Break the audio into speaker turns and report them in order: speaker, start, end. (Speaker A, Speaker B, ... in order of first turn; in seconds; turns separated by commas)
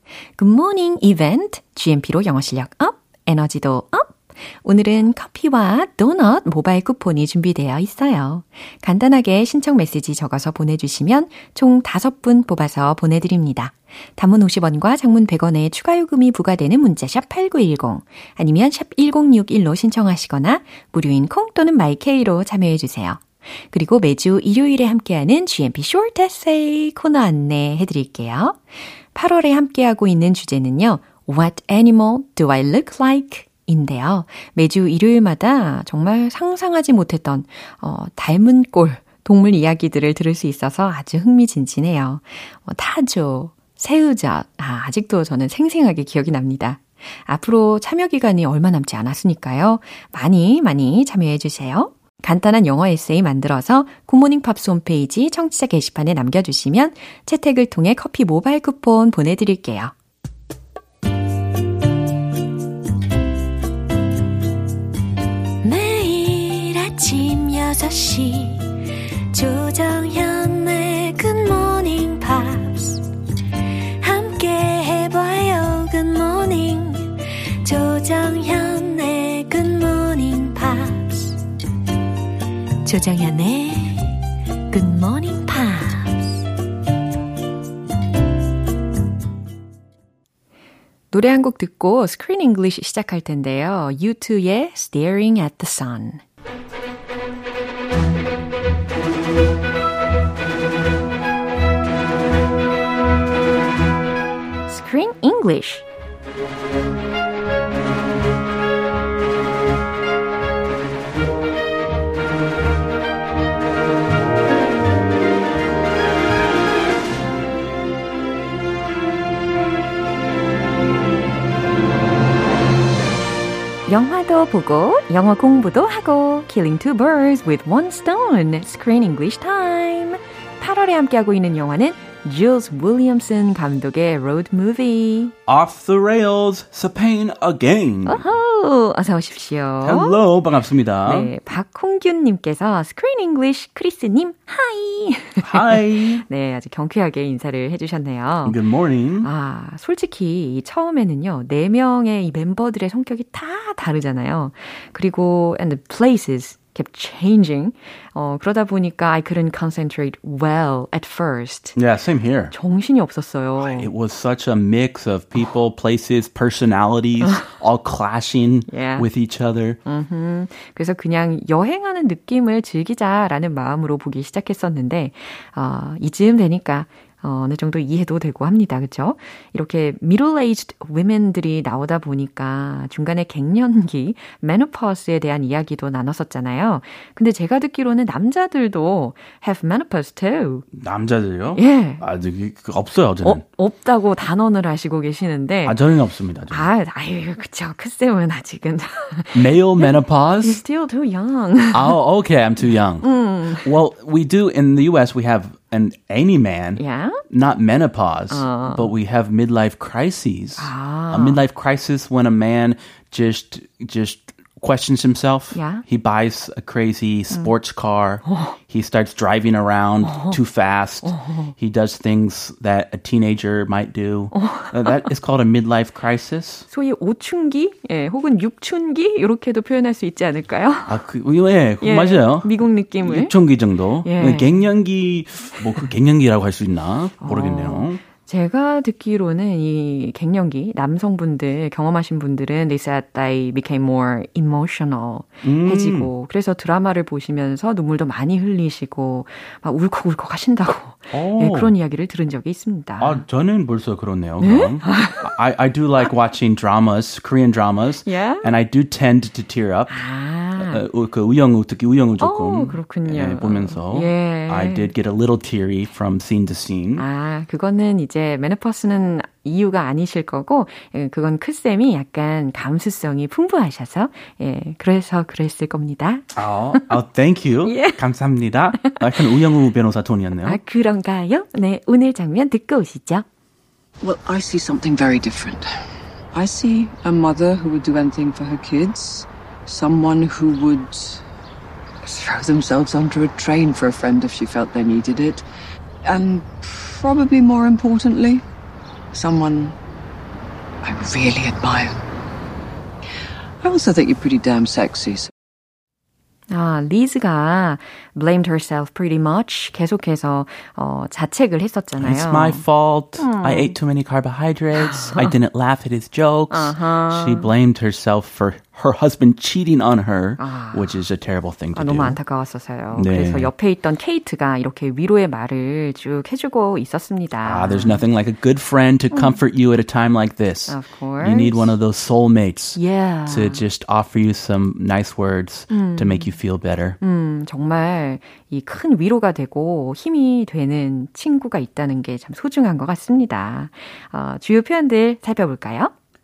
Speaker A: 0.4-59.9, Speaker A: 65.6-73.0, Speaker A: 74.0-81.4, Speaker A: 82.8-86.4, Speaker A: 91.1-96.2, Speaker A: 104.7-105.8, Speaker A: 123.9-135.3, Speaker B: 135.4-138.2, Speaker A: 138.1-140.2, Speaker B: 139.8-141.3, Speaker A: 141.0-148.6, Speaker B: 145.4-146.2, Speaker B: 148.4-149.3, Speaker A: 149.2-161.8, Speaker B: 161.8-162.5, Speaker A: 162.5-163.9, Speaker B: 163.6-169.8, Speaker A: 168.7-169.1, Speaker A: 169.8-190.7, Speaker B: 190.7-193.4, Speaker A: 191.5-192.0, Speaker A: 193.2-195.8, Speaker B: 195.6-196.6, Speaker A: 196.5-202.0, Speaker B: 199.3-200.6, Speaker B: 201.7-226.7, Speaker A: 203.0-203.7, Speaker A: 206.8-207.2, Speaker A: 208.3-208.9, Speaker A: 210.6-211.4, Speaker A: 215.5-215.8, Speaker A: 218.2-218.6, Speaker A: 220.0-220.4, Speaker A: 221.0-221.5, Speaker A: 224.3-224.9, Speaker A: 226.7-231.0, Speaker B: 230.9-232.5, Speaker A: 231.8-233.3, Speaker B: 233.0-238.0, Speaker A: 234.0-234.5, Speaker A: 237.2-253.2, Speaker B: 245.4-246.1, Speaker B: 251.1-251.7, Speaker B: 253.0-259.9, Speaker A: 254.4-255.3, Speaker A: 258.1-258.5, Speaker A: 259.9-260.8, Speaker B: 260.6-267.0, Speaker A: 262.2-264.9, Speaker A: 267.0-277.0, Speaker B: 276.4-280.6, Speaker A: 277.6-278.0, Speaker A: 280.4-283.2, Speaker C: 284.0-285.7, Speaker C: 286.3-291.2, Speaker C: 292.0-295.4, Speaker C: 296.0-298.4, Speaker C: 299.1-299.8, Speaker C: 300.8-301.9, Speaker C: 303.6-305.3, Speaker A: 306.5-312.6, Speaker B: 312.0-322.2, Speaker A: 313.2-313.8, Speaker A: 314.8-315.3, Speaker A: 316.5-317.5, Speaker A: 320.4-321.0, Speaker A: 321.7-328.0, Speaker B: 322.9-323.5, Speaker B: 327.4-337.0, Speaker A: 330.7-331.7, Speaker A: 332.8-333.6, Speaker A: 335.7-336.4, Speaker A: 337.0-345.9